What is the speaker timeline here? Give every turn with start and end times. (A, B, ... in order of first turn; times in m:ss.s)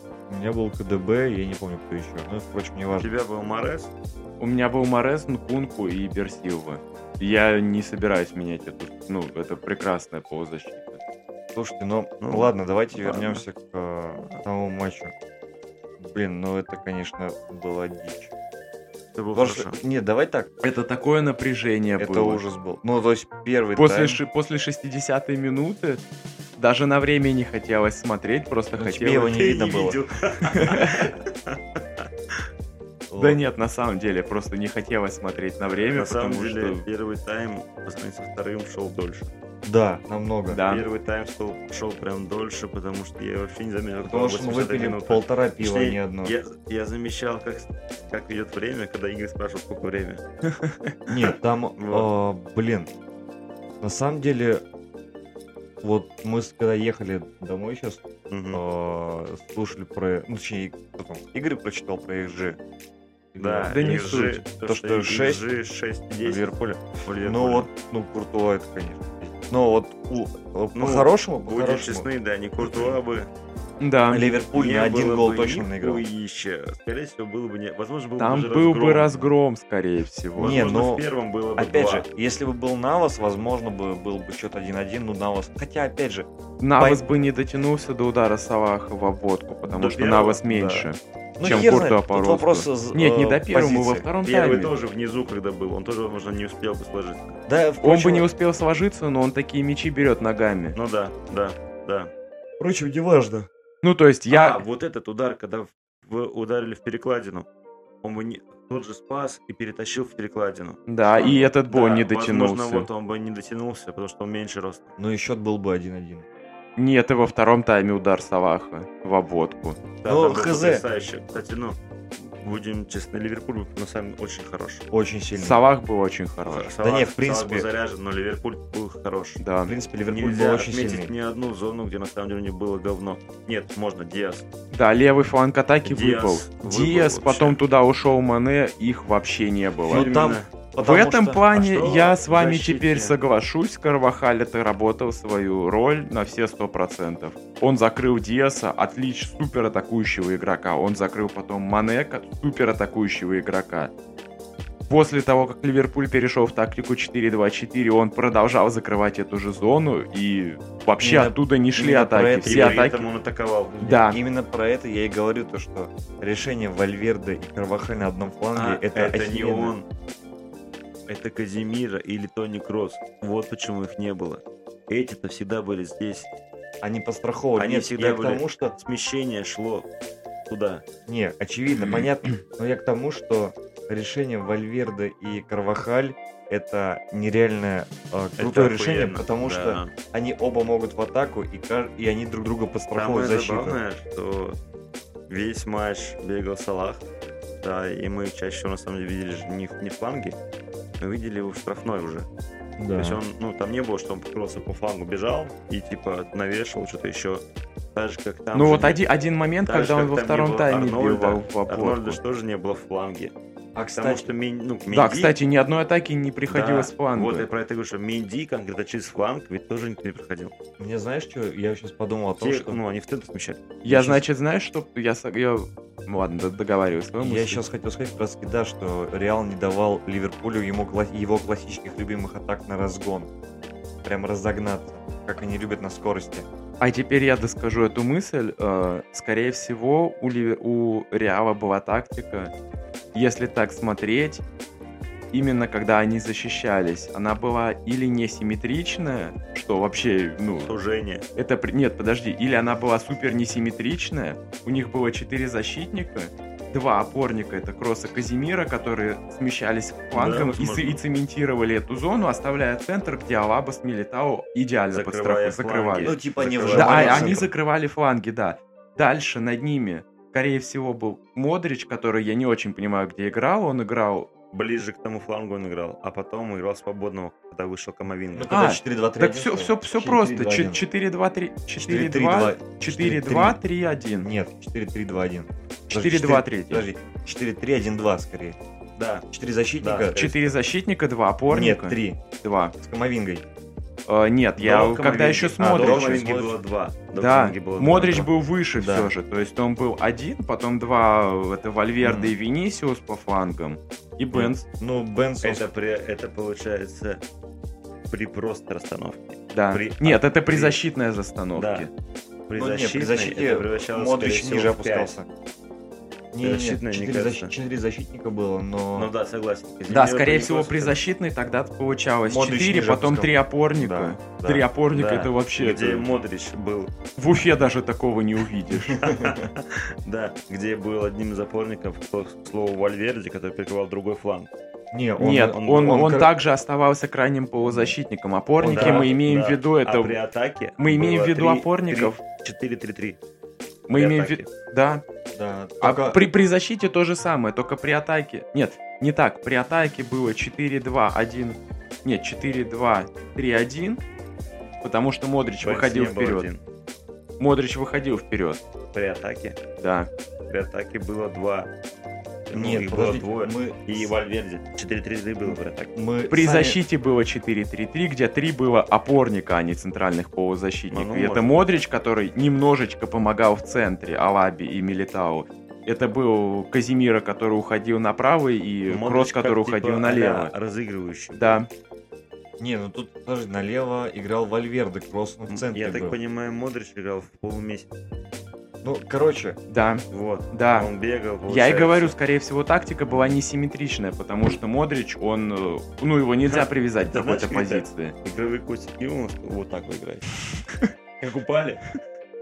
0:00.3-0:03.1 A
0:03.0-0:03.9 B
0:04.4-0:11.0 C
0:11.5-0:15.1 A
0:12.2-0:13.4 B
0:16.0-0:18.3 A
0:19.2-0:19.8 B
0:19.3-0:20.5 A
0:20.6-0:22.4 C
0:22.0-0:24.2 A
0:23.8-0:26.0 C
0:26.6-0:29.4 C
0:28.8-0:30.0 A
0:29.3-0:32.0 B
0:30.5-0:31.1 C
0:33.1-0:33.4 A
0:33.2-0:36.8 C
0:35.9-0:39.3 B
0:39.6-0:40.6 A
0:40.5-0:40.8 C
0:40.7-0:50.2 B
0:44.0-0:46.3 A
0:50.4-0:51.0 C
0:51.1-0:52.9 A
0:51.8-0:52.1 B
0:53.8-0:54.6 A
0:55.8-1:02.6 A
0:58.3-0:58.6 B
1:03.3-1:05.4 A
1:03.4-1:07.7 B
1:03.7-1:04.4 C
1:07.2-1:12.0 A
1:10.7-1:13.3 B
1:12.6-1:13.0 A
1:13.8-1:14.3 C
1:14.1-1:16.0 A
1:14.5-1:19.3 B
1:18.2-1:20.7 C
1:20.4-1:22.0 B
1:20.4-1:21.0 A
1:21.6-1:27.0 A
1:26.6-1:34.7 C
1:29.7-1:30.5 B
1:30.5-1:30.8 A
1:31.4-1:34.1 A
1:34.2-1:37.4 B
1:37.5-1:38.3 A
1:37.8-1:40.8 C
1:40.7-1:42.1 B
1:42.6-1:43.5 A
1:43.8-1:44.6 C
1:44.3-1:47.5 B
1:48.0-1:54.9 B
1:50.9-1:52.9 C
1:55.0-1:56.2 A
1:56.8-1:59.8 C
2:00.0-2:04.8 B
2:00.0-2:00.8 A
2:04.9-2:05.6 A
2:05.3-2:06.7 C
2:06.4-2:09.4 B
2:06.8-2:07.7 A
2:09.4-2:09.7 C
2:09.6-2:11.1 A
2:10.1-2:14.4 B
2:14.7-2:20.1 C
2:15.8-2:17.6 B
2:19.9-2:20.5 B
2:19.9-2:21.5 A
2:20.8-2:33.9 C
2:21.5-2:23.2 B
2:34.9-2:43.0 C
2:41.0-2:42.9 A
2:42.4-2:44.0 B
2:43.8-2:44.2 C
2:43.9-2:49.7 A
2:48.5-2:49.8 B
2:51.1-2:56.3 B
2:56.8-2:58.7 A
2:57.6-2:59.9 B
3:00.5-3:00.8 B
3:01.1-3:13.8 A
3:08.4-3:09.9 B
3:12.9-3:14.6 B
3:15.3-3:17.0 B
3:17.6-3:20.4 B
3:21.0-3:22.3 B
3:22.8-3:23.2 A
3:23.0-3:27.4 B
3:27.9-3:29.0 B
3:28.5-3:32.2 C
3:29.7-3:33.3 B
3:33.7-3:34.3 A
3:34.0-3:35.3 B
3:34.9-3:37.5 C
3:36.5-3:40.5 B
3:40.8-3:42.8 A
3:42.4-3:43.8 B
3:43.8-3:47.6 C
3:43.9-3:44.2 A
3:47.2-3:53.3 A
3:54.0-3:56.5 A
3:56.8-4:02.5 C
4:03.1-4:04.4 C
4:05.3-4:10.7 C
4:10.6-4:11.2 B
4:11.4-4:26.2 C
4:20.1-4:21.0 B
4:24.9-4:27.5 B
4:26.0-4:27.5 A
4:26.7-4:34.3 C
4:34.5-4:38.5 B
4:38.3-4:40.8 A
4:38.5-4:44.3 C
4:41.8-4:43.6 A
4:44.2-4:48.6 A
4:45.9-4:46.9 C
4:49.0-4:49.2 B
4:49.3-4:50.2 A
4:49.8-4:50.5 B
4:50.2-4:52.7 C
4:51.5-4:52.2 A
4:52.8-4:53.4 A
4:54.1-4:56.2 C
4:54.6-4:58.3 B
4:55.6-4:56.6 A
4:57.1-5:04.6 C
4:58.8-4:59.1 A
5:02.0-5:02.3 A
5:04.3-5:05.6 A
5:05.4-5:07.2 B
5:08.1-5:10.8 B
5:09.5-5:11.9 C
5:11.6-5:11.9 B
5:12.5-5:15.1 B
5:12.5-5:15.3 A
5:16.3-5:19.1 A
5:16.4-5:17.5 B
5:18.9-5:21.0 B
5:19.9-5:26.1 C
5:22.2-5:24.7 A
5:24.9-5:26.9 B
5:27.2-5:29.0 C
5:28.9-5:34.5 B
5:29.0-5:29.3 A
5:34.9-5:36.3 A
5:35.2-5:40.2 C
5:35.6-5:36.0 B
5:37.6-5:37.9 A
5:38.6-5:39.1 A
5:38.7-5:43.2 B
5:40.8-5:42.2 C
5:43.9-5:45.0 C
5:43.9-5:44.4 B
5:45.3-5:46.3 A
5:45.8-5:54.0 C
5:54.8-5:56.5 C
5:55.6-5:56.6 B
5:57.4-5:58.6 C
5:58.9-5:59.6 B
5:59.8-6:00.1 C
6:00.5-6:01.7 B
6:02.5-6:05.9 B
6:02.5-6:04.1 A
6:05.4-6:06.8 A
6:06.3-6:20.5 C
6:10.9-6:11.6 B
6:18.9-6:21.6 B
6:21.4-6:21.7 C
6:22.6-6:26.2 A
6:25.5-6:27.9 B
6:28.8-6:29.6 A
6:29.7-6:30.9 C
6:30.1-6:32.1 B
6:31.5-6:38.1 C
6:36.4-6:40.4 B
6:41.2-6:42.0 B